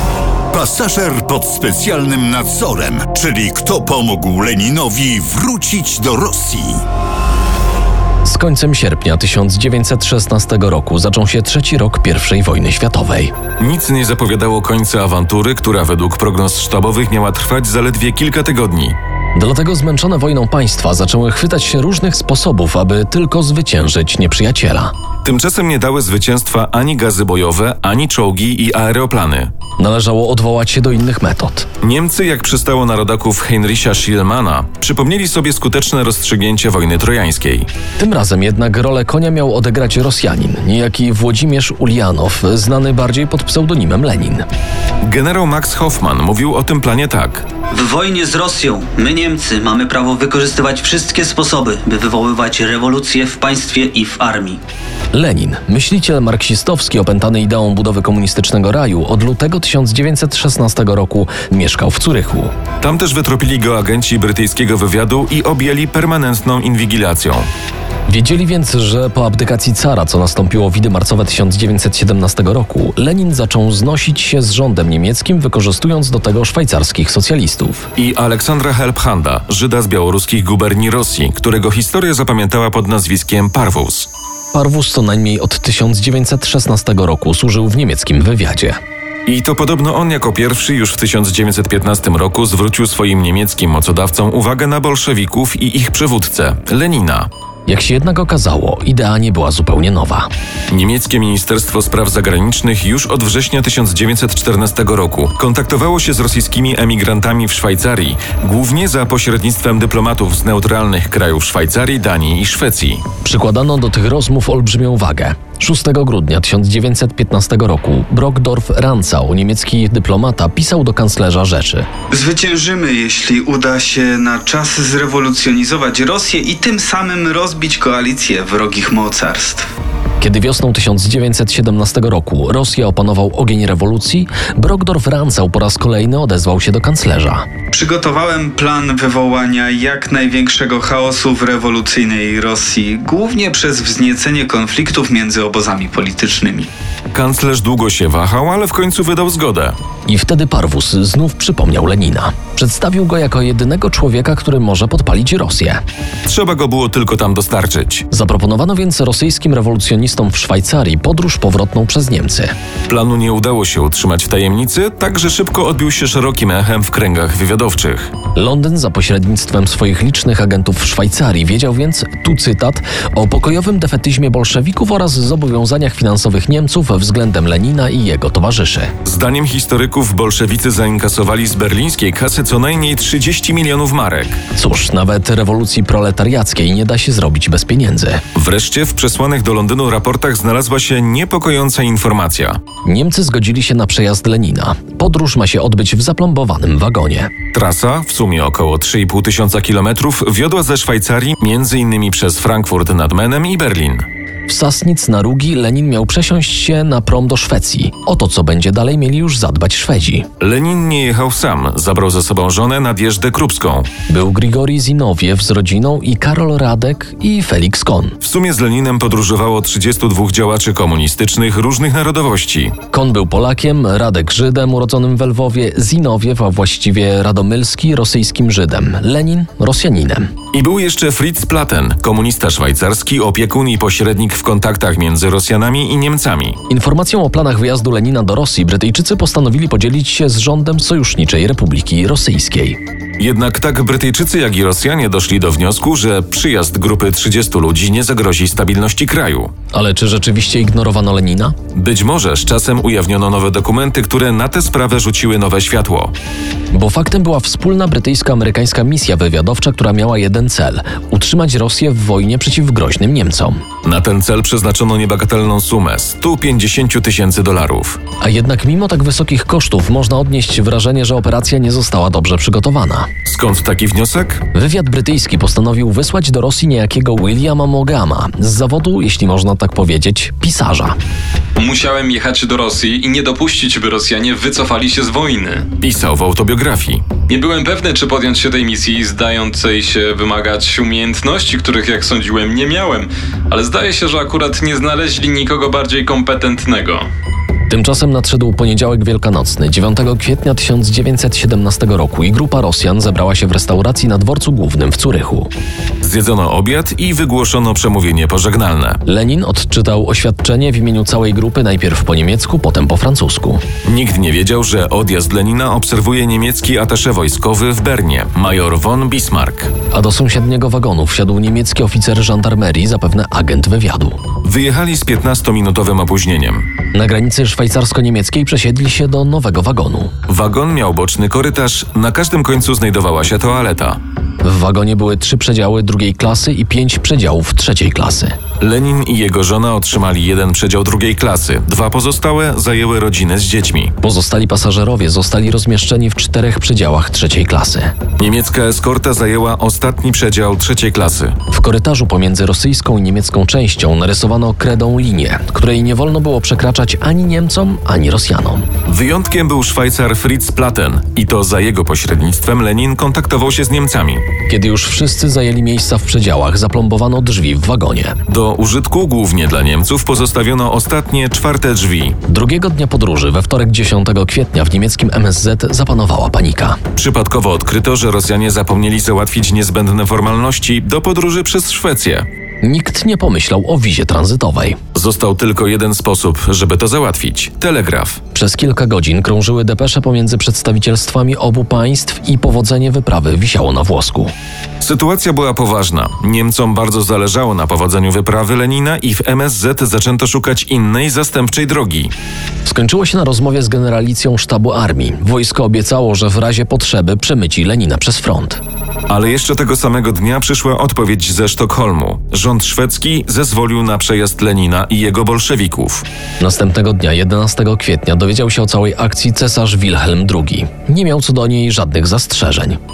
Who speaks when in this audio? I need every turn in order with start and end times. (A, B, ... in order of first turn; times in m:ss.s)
0:00.5-0:06.8 A
0:08.2-0:13.3 B
0:13.6-0:19.0 C
0:19.4-0:24.9 B
0:25.2-0:29.5 C
0:29.8-0:31.7 B
0:31.8-0:37.7 C
0:38.0-0:44.5 B
0:45.0-0:47.5 C
0:47.7-0:54.6 D
0:55.1-1:02.5 B
1:02.8-1:07.5 C
1:08.1-1:17.9 B
1:18.0-1:24.1 C
1:24.5-1:28.8 B
1:29.3-1:37.3 C
1:37.7-1:40.3 B
1:40.7-1:53.0 C
1:53.2-2:01.9 B
2:02.1-2:09.7 E
2:10.2-2:17.5 B
2:17.7-2:26.7 E
2:27.1-2:29.8 C
2:30.1-2:35.8 B
2:36.2-2:38.1 C
2:38.1-2:42.5 B
2:42.9-2:48.1 C
2:48.4-2:58.9 B
2:59.0-3:04.4 C
3:04.6-3:08.2 B
3:08.4-3:12.6 C
3:12.8-3:17.3 B
3:17.5-3:24.1 C
3:24.5-3:30.3 B
3:30.4-3:33.9 C
3:34.1-3:38.2 B
3:38.2-3:42.8 C
3:42.9-3:50.3 B
3:50.5-3:56.6 C
3:56.7-4:02.8 B
4:03.2-4:09.5 C
4:09.7-4:11.6 B
4:11.8-4:16.1 C
4:16.7-4:23.6 B
4:23.8-4:28.0 C
4:28.2-4:33.1 B
4:33.3-4:34.4 C
4:34.5-4:41.0 B
4:41.6-4:45.7 F
4:45.8-4:47.1 C
4:47.3-4:57.1 F
4:57.7-5:05.5 B
5:06.0-5:09.0 C
5:09.1-5:13.6 B
5:13.8-5:19.7 C
5:19.9-5:24.2 B
5:24.4-5:26.7 C
5:26.9-5:30.1 B
5:30.3-5:34.0 C
5:34.4-5:38.4 B
5:38.6-5:43.9 C
5:44.0-5:48.0 B
5:48.2-5:51.4 C
5:51.5-5:58.7 B
5:58.9-6:04.2 C
6:04.5-6:08.2 B
6:08.3-6:12.2 C
6:12.3-6:16.8 B
6:17.0-6:22.3 C
6:22.6-6:24.8 B
6:24.9-6:28.2 C
6:28.3-6:34.3 B
6:34.8-6:42.1 C
6:42.6-6:48.6 B
6:49.1-6:56.0 C
6:56.4-7:02.8 B